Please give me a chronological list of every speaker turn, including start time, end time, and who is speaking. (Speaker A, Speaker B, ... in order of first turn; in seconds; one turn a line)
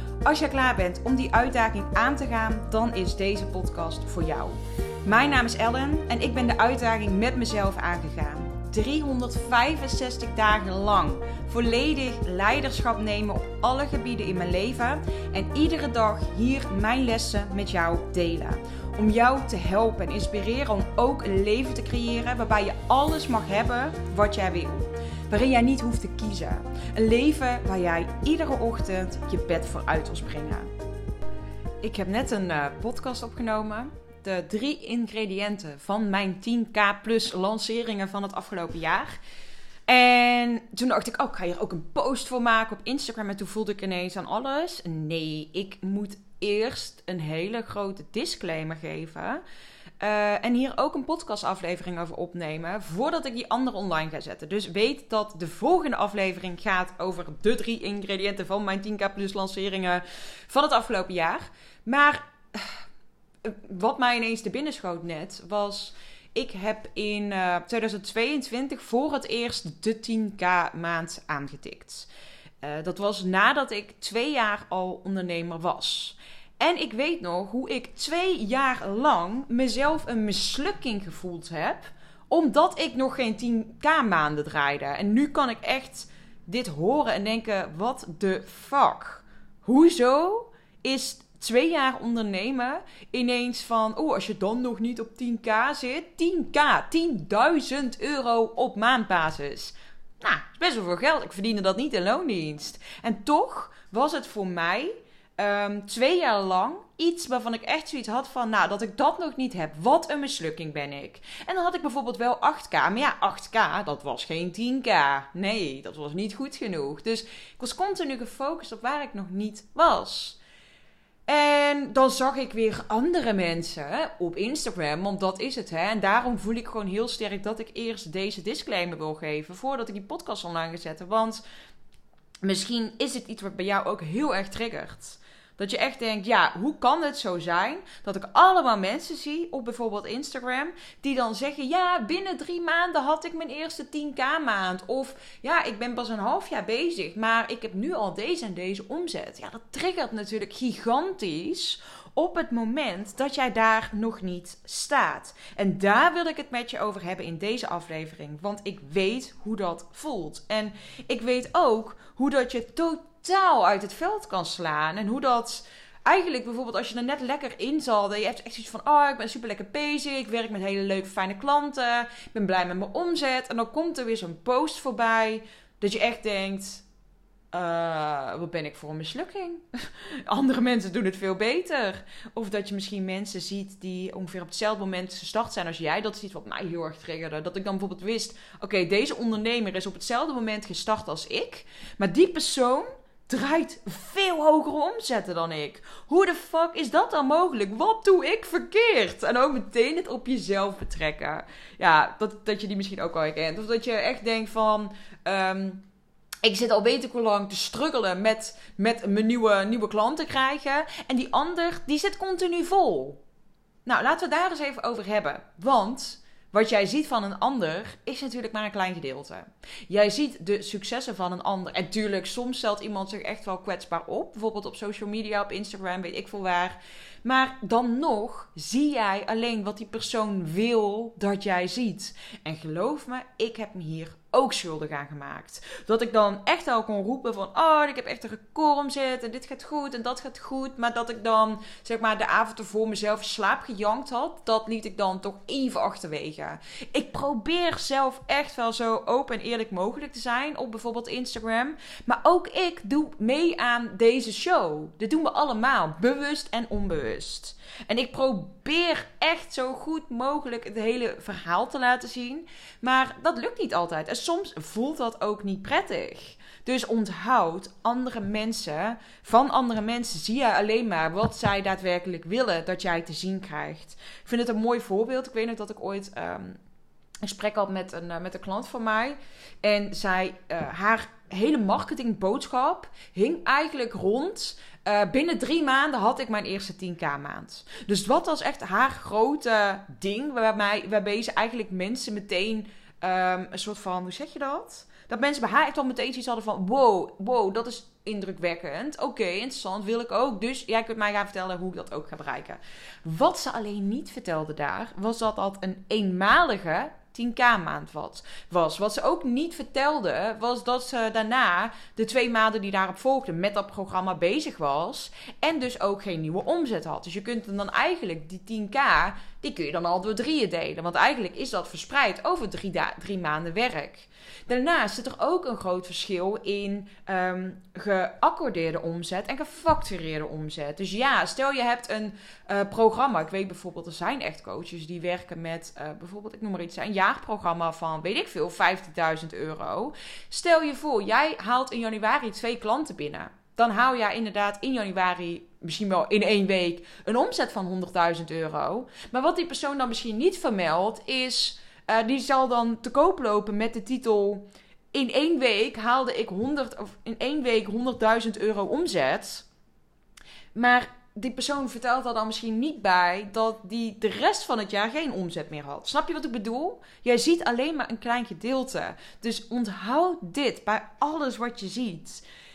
Speaker A: 0.2-30.7
Speaker A: 31.8-39.2
Speaker A: 39.9-49.4
Speaker A: 50.0-62.8
Speaker A: 63.4-72.1
Speaker A: 72.6-120.4
Speaker A: 121.3-131.4
Speaker A: 132.4-176.8
Speaker A: 177.5-205.8
Speaker A: 206.4-213.2
Speaker A: 213.9-276.6
Speaker A: 277.2-359.5
Speaker A: 360.6-372.2